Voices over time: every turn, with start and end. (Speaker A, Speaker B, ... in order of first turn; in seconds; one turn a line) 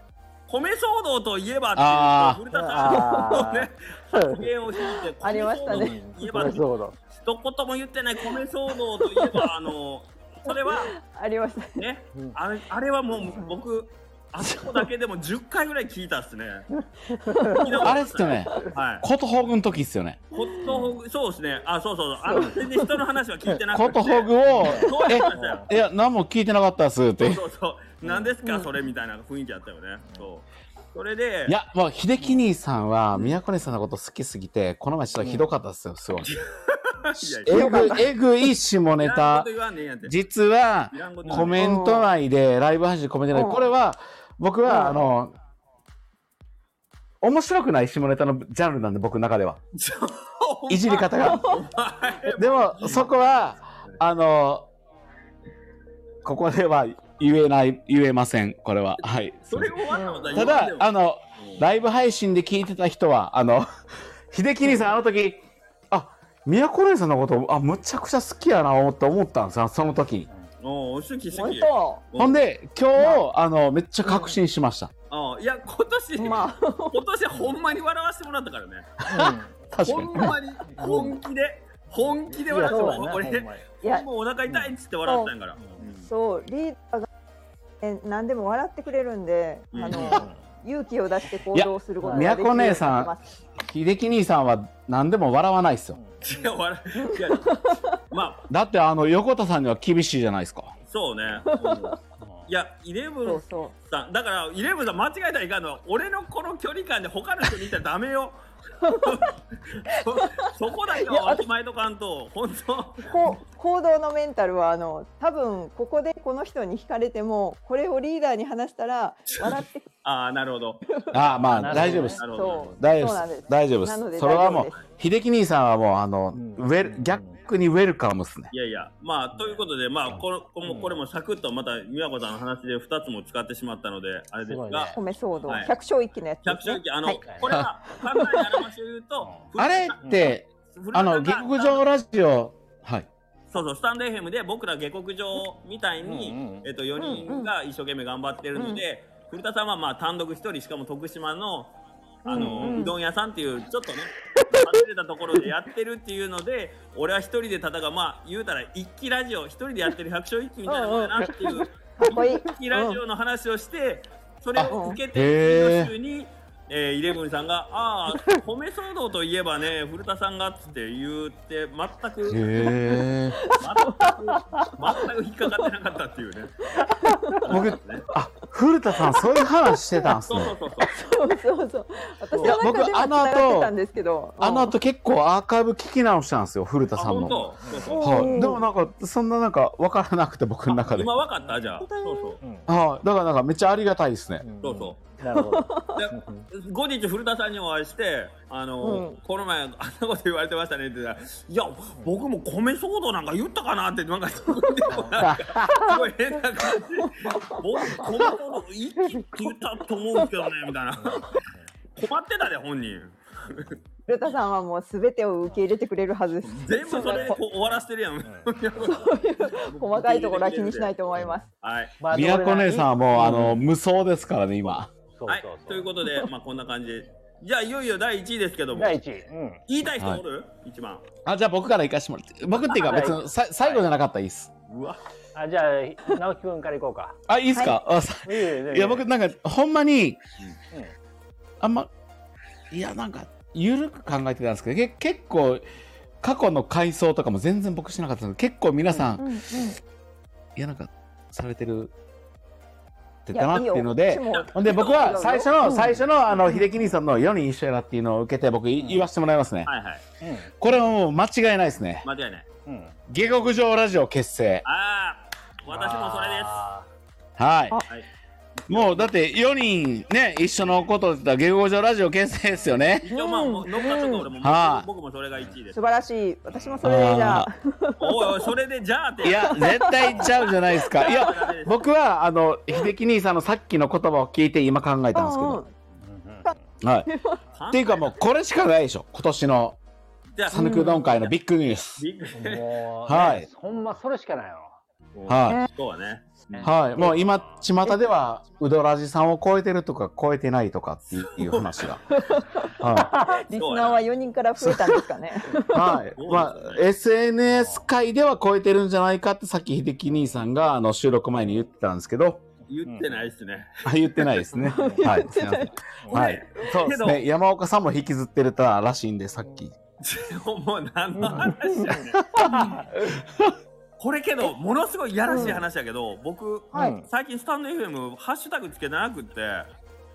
Speaker A: 0.5-11.0
Speaker B: 1.8-2.4
Speaker C: 2.5-4.5
Speaker D: 2.8-3.5
Speaker D: 4.8-6.0
Speaker C: 5.7-7.0
Speaker D: 9.0-9.5
Speaker D: 10.5-11.8
Speaker A: 11.8-16.7
Speaker D: 13.2-13.6
Speaker D: 14.5-14.8
Speaker C: 17.1-17.7
Speaker D: 17.2-17.9
Speaker A: 17.5-19.1
Speaker B: 17.8-20.2
Speaker A: 20.3-25.8
Speaker D: 20.4-20.9
Speaker C: 20.6-20.9
Speaker D: 22.3-23.0
Speaker B: 23.7-27.4
Speaker C: 24.5-25.7
Speaker A: 27.2-31.6
Speaker C: 28.0-28.3
Speaker D: 28.4-28.7
Speaker B: 31.5-36.3
Speaker C: 35.2-35.5
Speaker A: 36.2-38.0
Speaker B: 37.2-39.5
Speaker D: 37.5-38.1
Speaker A: 39.0-40.2
Speaker B: 40.0-45.3
Speaker A: 40.9-41.7
Speaker D: 41.5-42.1
Speaker D: 43.3-43.7
Speaker D: 44.7-45.0
Speaker B: 47.2-49.6
Speaker A: 49.7-53.2
Speaker B: 50.7-51.6
Speaker D: 51.2-51.6
Speaker B: 52.3-54.7
Speaker B: 56.2-59.8
Speaker A: 59.5-61.6
Speaker D: 59.9-60.5
Speaker B: 60.3-63.7
Speaker B: 64.3-70.3
Speaker A: 70.6-72.4
Speaker D: 71.3-72.0
Speaker B: 72.2-74.9
Speaker D: 73.0-73.2
Speaker A: 75.1-78.9
Speaker D: 76.2-77.0
Speaker B: 79.0-80.4
Speaker C: 79.1-79.7
Speaker A: 79.8-86.1
Speaker C: 80.7-81.2
Speaker C: 82.3-83.6
Speaker D: 82.7-83.1
Speaker D: 83.8-84.1
Speaker D: 85.0-85.3
Speaker C: 85.6-85.9
Speaker D: 86.0-87.1
Speaker D: 87.8-93.4
Speaker A: 89.7-90.3
Speaker C: 89.9-90.5
Speaker B: 91.5-96.0
Speaker C: 92.0-92.3
Speaker C: 95.9-96.5
Speaker A: 96.2-98.5
Speaker D: 97.0-97.9
Speaker B: 98.5-100.7
Speaker A: 100.9-102.0
Speaker D: 101.5-102.0
Speaker C: 102.2-102.5
Speaker A: 102.5-113.3
Speaker D: 103.2-103.7
Speaker D: 108.8-109.3
Speaker D: 110.1-111.5
Speaker D: 113.1-119.9
Speaker A: 119.4-120.8
Speaker B: 121.1-122.2
Speaker A: 121.5-122.8
Speaker C: 121.5-122.2
Speaker D: 121.8-124.8
Speaker B: 122.8-128.5
Speaker C: 126.3-127.4
Speaker A: 128.5-135.7
Speaker C: 129.3-129.7
Speaker C: 130.7-131.0
Speaker C: 134.5-135.0
Speaker D: 134.9-137.2
Speaker A: 136.4-141.9
Speaker C: 137.2-137.6
Speaker D: 138.1-138.7
Speaker C: 139.2-139.5
Speaker B: 139.6-143.1
Speaker C: 140.0-140.3
Speaker A: 143.5-172.8
Speaker C: 146.0-146.7
Speaker D: 147.0-147.5
Speaker D: 148.6-148.8
Speaker D: 152.2-152.9
Speaker C: 152.3-152.9
Speaker D: 160.7-163.0
Speaker B: 164.6-165.9
Speaker D: 164.7-165.0
Speaker B: 172.3-173.4
Speaker D: 172.6-175.7
Speaker A: 173.5-176.7
Speaker D: 176.7-177.7
Speaker A: 177.4-178.1
Speaker B: 177.4-180.6
Speaker D: 178.9-180.2
Speaker A: 180.2-181.0
Speaker D: 180.8-184.7
Speaker C: 182.3-182.6
Speaker B: 182.4-183.7
Speaker B: 184.4-187.4
Speaker A: 186.9-188.5
Speaker C: 187.6-188.3
Speaker D: 187.9-188.7
Speaker B: 188.0-191.2
Speaker A: 190.7-192.4
Speaker C: 191.4-191.8
Speaker D: 191.8-192.4
Speaker C: 192.4-192.7
Speaker B: 192.7-194.4
Speaker C: 194.4-196.5
Speaker A: 194.6-195.0
Speaker D: 195.3-196.1
Speaker A: 195.9-211.4
Speaker D: 198.8-199.2
Speaker C: 204.9-205.2
Speaker B: 205.2-205.7
Speaker D: 205.6-206.1
Speaker D: 206.7-208.3
Speaker D: 209.1-209.5
Speaker C: 211.0-211.7
Speaker A: 212.0-213.8
Speaker D: 214.1-217.4
Speaker A: 216.4-222.0
Speaker C: 218.2-219.1
Speaker D: 218.8-221.5
Speaker C: 222.0-223.7
Speaker B: 222.1-224.9
Speaker A: 224.7-229.0
Speaker C: 225.2-225.9
Speaker D: 226.0-226.3
Speaker C: 228.7-229.6
Speaker A: 229.7-231.1
Speaker B: 231.2-234.5
Speaker C: 232.7-233.8
Speaker A: 234.7-235.0
Speaker C: 235.3-237.2
Speaker B: 237.3-240.2
Speaker D: 237.5-237.8
Speaker C: 238.2-239.1
Speaker B: 241.6-241.9
Speaker B: 242.7-245.6
Speaker B: 246.2-249.4
Speaker D: 249.2-249.8
Speaker B: 250.6-251.9
Speaker B: 253.3-259.7
Speaker D: 253.3-256.7
Speaker A: 254.3-255.3
Speaker C: 255.6-256.1
Speaker C: 258.8-259.1
Speaker A: 259.7-260.0
Speaker C: 260.2-260.5
Speaker B: 260.6-262.1
Speaker A: 262.0-262.5
Speaker C: 262.7-263.0
Speaker B: 263.1-264.6
Speaker A: 264.6-266.6
Speaker C: 265.7-266.9
Speaker B: 267.4-267.8
Speaker A: 268.7-269.1
Speaker B: 268.7-273.1
Speaker A: 273.0-275.8
Speaker D: 273.1-274.3
Speaker B: 274.4-274.9
Speaker D: 275.7-278.5
Speaker A: 276.5-276.8
Speaker B: 276.8-277.5
Speaker A: 278.0-281.9
Speaker B: 279.2-285.6
Speaker D: 279.4-281.4
Speaker D: 285.1-285.7
Speaker C: 286.0-286.7
Speaker B: 286.8-287.1
Speaker D: 287.1-287.4
Speaker A: 287.6-288.2
Speaker B: 287.7-289.8
Speaker A: 290.4-291.3
Speaker B: 290.5-292.0
Speaker D: 290.5-291.1
Speaker A: 292.0-292.7
Speaker C: 292.4-294.8
Speaker B: 293.1-293.5
Speaker A: 295.1-296.7
Speaker B: 295.3-295.6
Speaker C: 296.5-297.6
Speaker B: 296.6-302.1
Speaker A: 301.1-301.9
Speaker D: 302.1-306.0
Speaker B: 302.8-303.1
Speaker A: 303.3-304.1
Speaker B: 304.6-305.1
Speaker B: 305.7-312.4
Speaker A: 306.2-306.9
Speaker C: 307.5-307.9
Speaker A: 312.7-313.9
Speaker C: 312.9-313.3
Speaker B: 313.8-319.7
Speaker D: 314.4-315.7
Speaker C: 314.7-315.1
Speaker A: 316.1-317.2
Speaker A: 320.0-322.2
Speaker C: 321.1-321.5
Speaker D: 321.7-322.8
Speaker B: 322.2-323.5
Speaker C: 322.5-322.9
Speaker A: 324.0-329.7
Speaker D: 325.3-325.6
Speaker C: 326.7-327.1